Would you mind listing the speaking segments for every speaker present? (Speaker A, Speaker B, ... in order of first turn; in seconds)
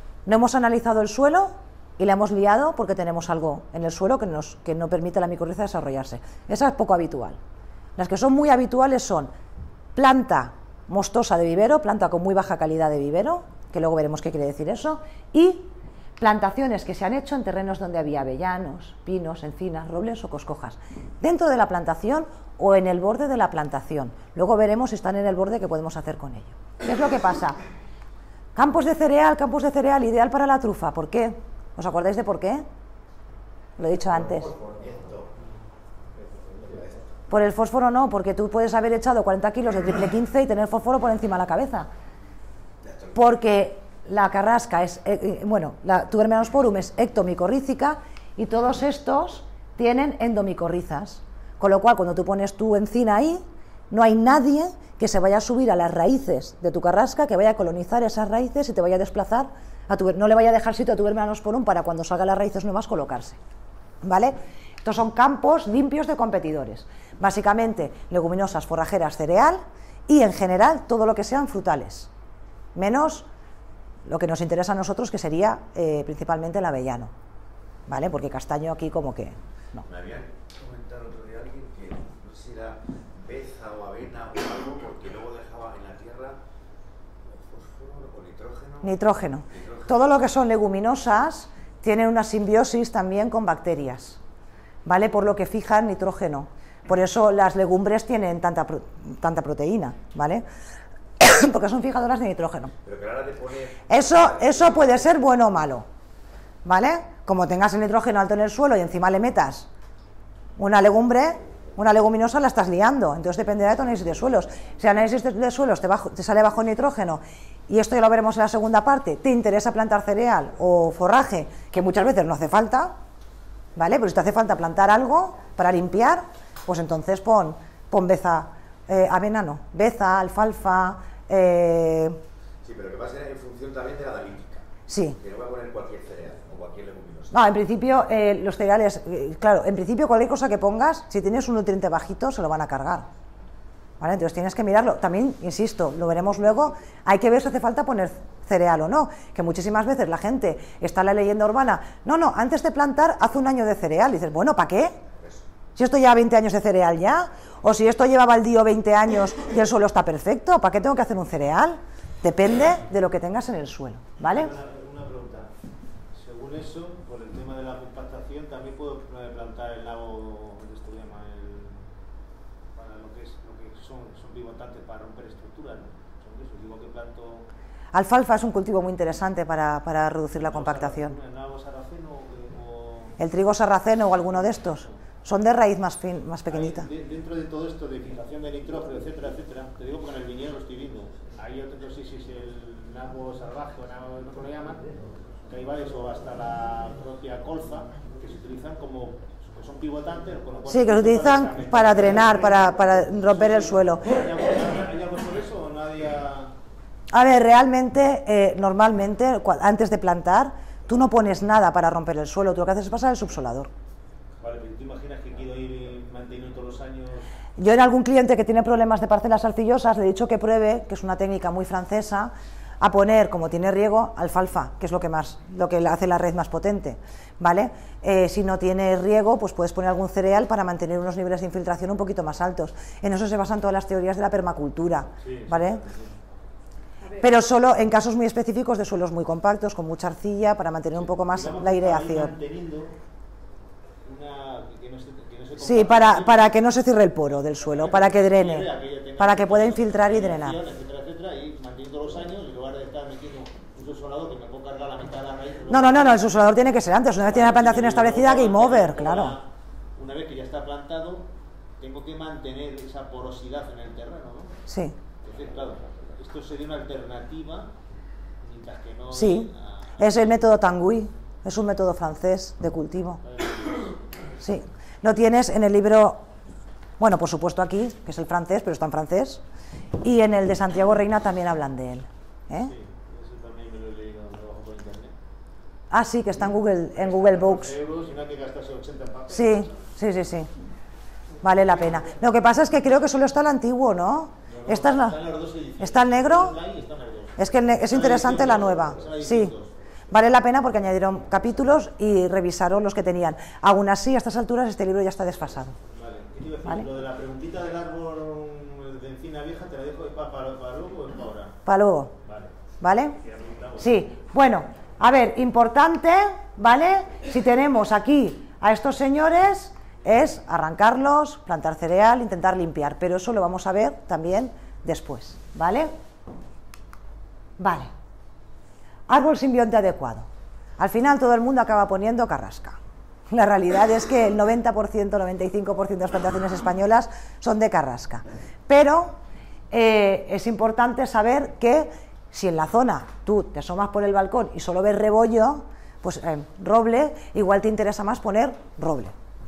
Speaker A: 0.2-7.4, 8.0-9.3, 9.9-27.6, 28.6-32.6, 33.8-34.5, 37.3-41.9, 43.1-63.4, 64.0-72.1, 72.7-73.3, 74.1-77.1, 77.9-79.8, 88.8-94.2, 94.8-100.4, 101.2-102.7, 103.9-105.8, 106.6-109.7, 110.6-122.9, 123.8-132.2, 134.9-135.2, 137.3-143.1, 144.0-154.9, 155.8-164.5, 177.9-181.2, 183.2-186.9, 200.7-204.1, 207.1-213.7, 217.6-235.8, 237.2-242.3, 245.6-250.6, 255.7-259.4, 264.7-264.9, 269.1-273.2, 274.4-276.2, 277.0-279.4, 280.0-282.7, 285.9-287.7, 289.3-290.5, 291.4-295.2, 295.8-296.5, 297.4-299.5, 300.1-305.8, 311.6-312.1, 312.8-313.2, 313.8-325.9, 327.6-327.9, 329.1-330.3, 330.8-332.8, 333.3-339.1, 339.7-349.1
Speaker B: 34.1-35.3, 36.5-37.1, 42.8-43.2, 79.8-86.4, 87.2-89.0, 89.5-90.2, 102.8-105.2, 132.6-134.7, 135.2-137.4, 155.2-155.4
Speaker C: 164.2-165.5, 166.1-171.9, 172.7-177.5, 180.3-183.2, 184.6-184.9, 186.5-194.9, 195.5-206.5, 214.4-217.3, 235.2-236.2, 240.9-242.9, 244.0-246.5, 247.7-256.3, 257.2-264.6, 265.2-267.7, 268.4-270.3, 273.2-274.0, 282.6-285.1, 286.9-289.7, 291.4-292.0, 294.5-299.7, 305.9-311.6, 312.2-312.5, 313.2-313.8